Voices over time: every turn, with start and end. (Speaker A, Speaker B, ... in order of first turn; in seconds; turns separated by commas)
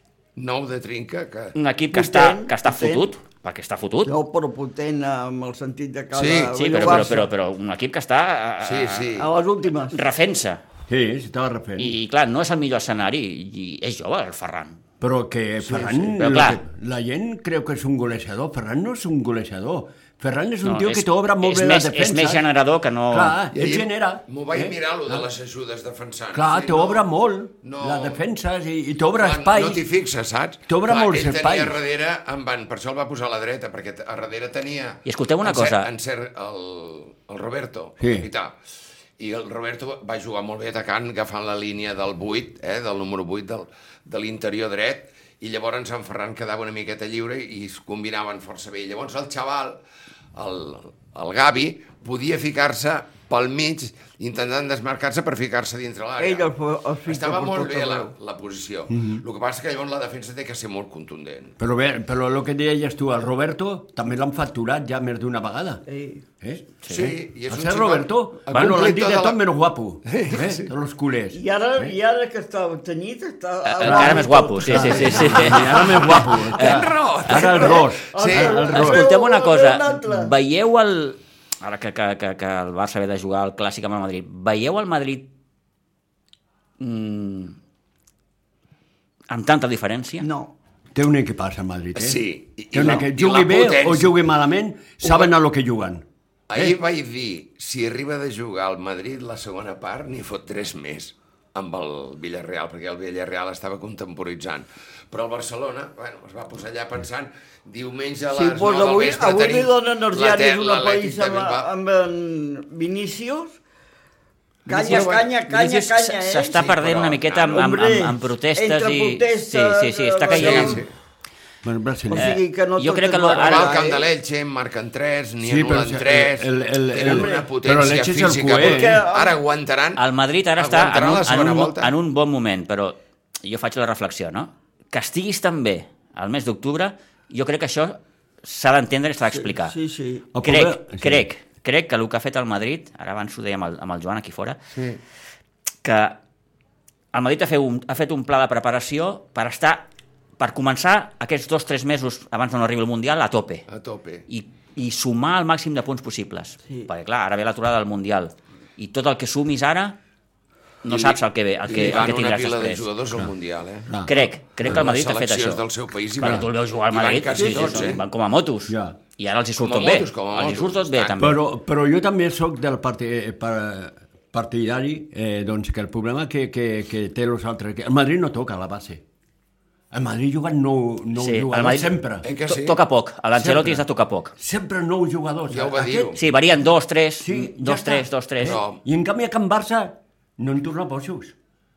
Speaker A: 0.4-1.6, Speaker B: 1.6-4.1, Speaker C: 1.9-3.1, Speaker C: 4.1-7.3, Speaker A: 6.2-7.1, Speaker B: 6.5-9.1, Speaker A: 8.6-9.3, Speaker C: 9.2-10.0, Speaker B: 9.9-10.6, Speaker D: 10.9-11.9, Speaker B: 11.8-14.8, Speaker D: 15.0-22.5, Speaker B: 16.0-16.6, Speaker B: 20.6-23.4, Speaker D: 23.1-25.2, Speaker A: 23.5-27.0, Speaker D: 26.3-29.9, Speaker A: 27.6-28.2, Speaker A: 29.2-38.6, Speaker D: 30.7-31.8, Speaker B: 35.0-35.9, Speaker D: 38.0-38.3, Speaker A: 39.2-49.8, Speaker A: 50.4-56.5, Speaker C: 56.2-58.1, Speaker A: 57.1-61.5, Speaker D: 58.9-59.2, Speaker D: 61.6-65.8, Speaker C: 65.9-66.2, Speaker D: 66.4-72.0, Speaker A: 66.9-69.4, Speaker A: 70.1-70.7, Speaker C: 71.3-75.7, Speaker B: 73.7-76.8, Speaker D: 73.8-79.1, Speaker A: 75.0-75.3, Speaker A: 76.5-78.6, Speaker C: 77.3-80.3, Speaker B: 78.7-85.3, Speaker B: 86.8-87.6, Speaker B: 89.3-90.3, Speaker C: 90.2-90.5, Speaker D: 90.9-96.8, Speaker A: 92.0-94.1, Speaker A: 95.0-95.3, Speaker A: 96.5-111.7, Speaker C: 108.3-113.6, Speaker C: 114.7-116.6, Speaker A: 114.7-115.3, Speaker B: 114.7-120.8, Speaker A: 116.5-117.6, Speaker C: 117.5-120.8, Speaker A: 120.3-120.9, Speaker D: 121.6-122.4, Speaker C: 122.1-124.1, Speaker B: 122.2-123.8, Speaker A: 123.3-130.0, Speaker D: 125.4-129.0, Speaker C: 127.0-127.5, Speaker C: 128.5-129.4, Speaker B: 130.0-139.8, Speaker A: 130.6-131.9, Speaker C: 139.3-140.3, Speaker D: 140.3-141.3, Speaker B: 140.4-144.6, Speaker A: 144.8-145.0, Speaker B: 145.8-146.2, Speaker B: 147.1-149.9, Speaker B: 150.4-153.7, Speaker A: 153.7-154.2, Speaker B: 154.3-160.0, Speaker B: 160.8-162.9, Speaker A: 160.9-163.9, Speaker B: 164.1-165.7, Speaker A: 164.6-168.0, Speaker B: 166.2-171.4, Speaker D: 166.2-166.5, Speaker C: 167.3-167.9, Speaker D: 168.7-169.0, Speaker A: 169.6-171.2, Speaker D: 171.2-179.0, Speaker D: 179.9-182.2, Speaker B: 181.2-184.3, Speaker A: 182.2-182.8, Speaker D: 183.3-183.8, Speaker D: 184.4-186.2, Speaker A: 185.5-186.2, Speaker B: 186.2-188.6, Speaker D: 187.2-191.3, Speaker A: 188.4-188.8